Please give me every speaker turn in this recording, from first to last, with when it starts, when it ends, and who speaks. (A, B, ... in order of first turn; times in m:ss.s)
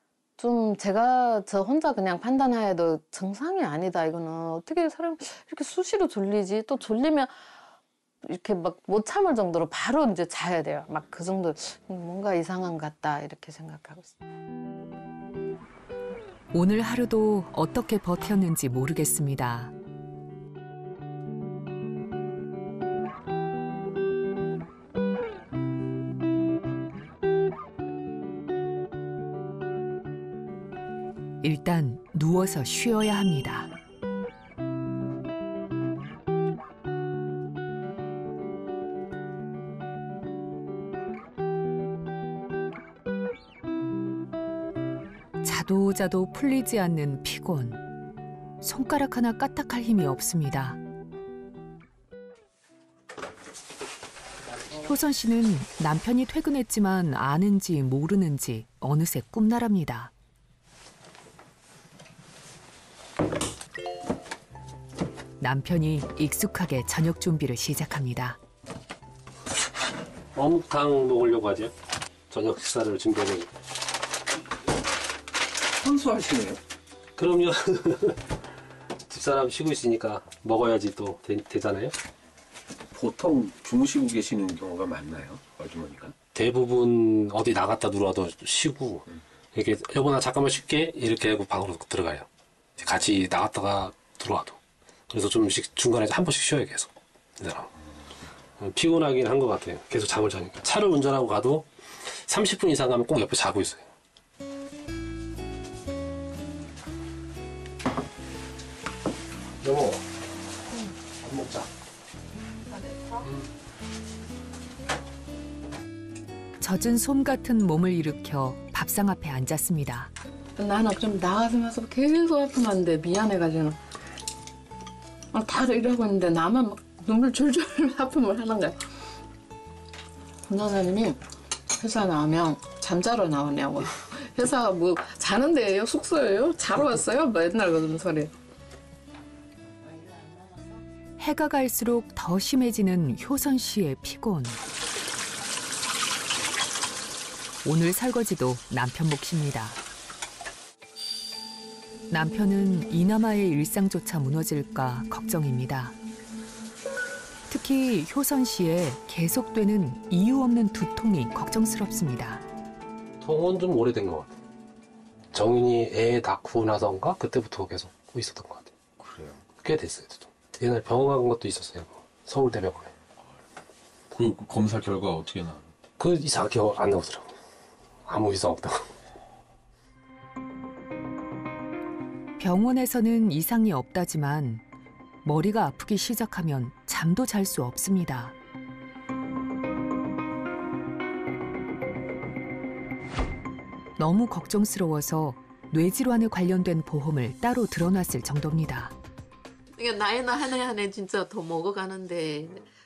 0:00.4-0:07.3 A
0:08.2-0:14.2 A
0:16.5-0:19.7 B
0:31.4-0:33.7 B
0:45.4-0:47.8 B
0:48.6-0:50.8 B
0:54.8-1:00.1 B
1:05.4-1:08.4 B
1:10.3-1:11.7 C
1:12.3-1:13.5 C
1:15.7-1:16.6 D
1:17.2-1:18.2 C
1:19.0-1:21.9 C
1:22.9-1:26.2 D
1:26.3-1:32.3 C
1:32.8-1:34.6 C
1:35.1-1:37.7 C
1:38.6-1:43.9 C
1:49.6-1:50.0 C
1:51.2-1:51.7 C
1:56.6-2:00.1 B
2:00.6-2:03.8 A
2:05.3-2:08.8 A
2:10.4-2:18.3 A
2:21.2-2:24.6 B
2:27.6-2:29.8 B
2:32.1-2:36.0 B
2:37.5-2:42.4 B
2:43.2-2:44.4 C
2:45.3-2:48.7 C
2:49.5-2:52.9 C
2:54.1-2:55.7 D
2:56.0-2:57.3 C
2:58.0-2:58.8 C
3:02.4-3:04.6 B
3:05.2-3:08.3 B
3:14.0-3:18.9 B
3:19.8-3:22.7 A